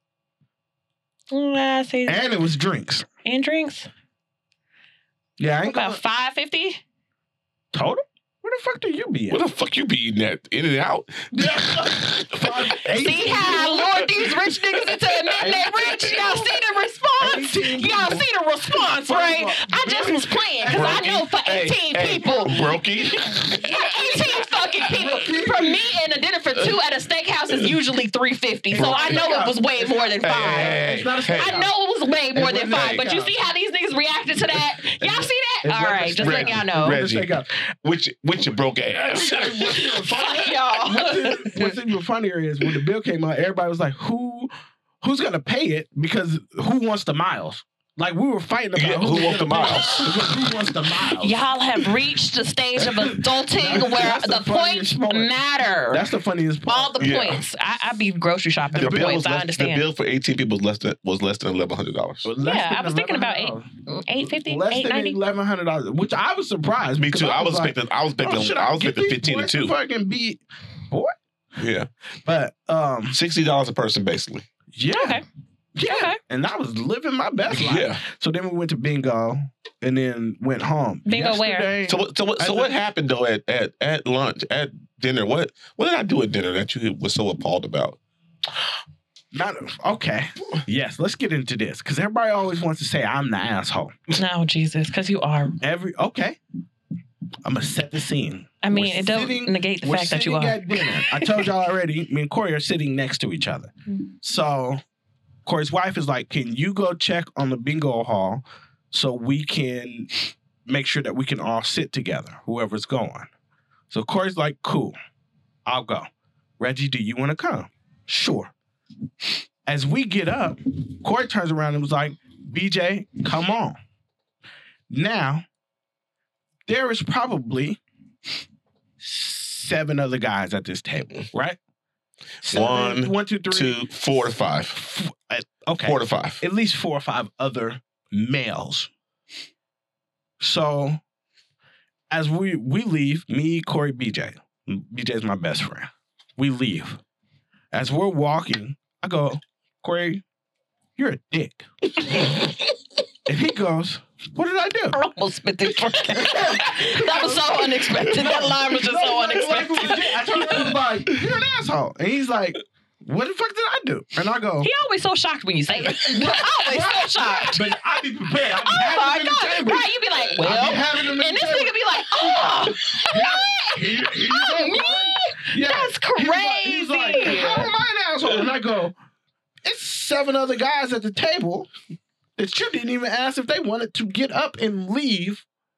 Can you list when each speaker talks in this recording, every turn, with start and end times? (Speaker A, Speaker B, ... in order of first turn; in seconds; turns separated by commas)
Speaker A: 1.3-2.2, Speaker B: 2.1-3.1, Speaker A: 3.2-3.9, Speaker B: 5.4-6.0, Speaker A: 5.6-6.8, Speaker B: 7.7-9.4, Speaker C: 9.3-12.6, Speaker B: 11.3-14.1, Speaker A: 12.9-22.6, Speaker C: 14.2-15.1, Speaker B: 15.3-16.5, Speaker B: 17.2-21.3, Speaker C: 20.7-24.1, Speaker B: 22.4-22.8, Speaker A: 23.6-30.8, Speaker B: 24.9-25.8, Speaker B: 28.7-31.7, Speaker C: 28.7-29.3, Speaker C: 30.2-31.6, Speaker A: 31.3-37.0, Speaker B: 32.3-33.4, Speaker C: 32.7-33.0, Speaker B: 35.0-37.5, Speaker C: 36.2-40.0, Speaker B: 39.0-44.5, Speaker A: 40.1-41.7, Speaker B: 45.0-51.4, Speaker C: 48.8-50.5, Speaker A: 49.5-50.0, Speaker A: 51.2-56.0, Speaker B: 52.8-55.4, Speaker B: 55.9-57.0, Speaker A: 56.7-59.9, Speaker C: 57.0-57.4, Speaker B: 58.7-59.2, Speaker C: 58.7-62.3, Speaker B: 62.2-63.7, Speaker A: 62.4-65.2, Speaker B: 64.2-71.2, Speaker C: 67.0-69.7, Speaker C: 71.6-71.9, Speaker B: 72.2-73.2, Speaker C: 73.1-74.5, Speaker B: 74.7-75.2, Speaker A: 74.9-75.2, Speaker B: 75.8-82.7, Speaker A: 75.8-76.2, Speaker C: 77.5-78.0, Speaker A: 81.1-81.7, Speaker C: 81.9-88.0, Speaker B: 89.3-93.9, Speaker A: 94.2-95.6, Speaker B: 95.6-96.4, Speaker B: 97.4-104.8, Speaker A: 98.6-101.3, Speaker B: 105.5-110.1, Speaker B: 110.7-113.3, Speaker B: 113.9-115.0, Speaker B: 115.7-118.5, Speaker B: 119.7-123.8, Speaker B: 124.9-125.5, Speaker B: 126.7-127.8, Speaker B: 129.0-131.6, Speaker B: 132.4-133.8, Speaker C: 132.5-134.8, Speaker B: 134.7-138.9, Speaker C: 135.8-136.4, Speaker B: 140.4-141.0, Speaker B: 142.1-147.0, Speaker B: 147.7-150.2, Speaker B: 151.0-151.7, Speaker B: 153.3-155.0, Speaker A: 154.9-160.7, Speaker B: 156.1-164.7, Speaker A: 164.6-167.7, Speaker B: 165.8-178.9, Speaker A: 168.5-177.7, Speaker B: 179.6-181.7, Speaker B: 182.4-185.5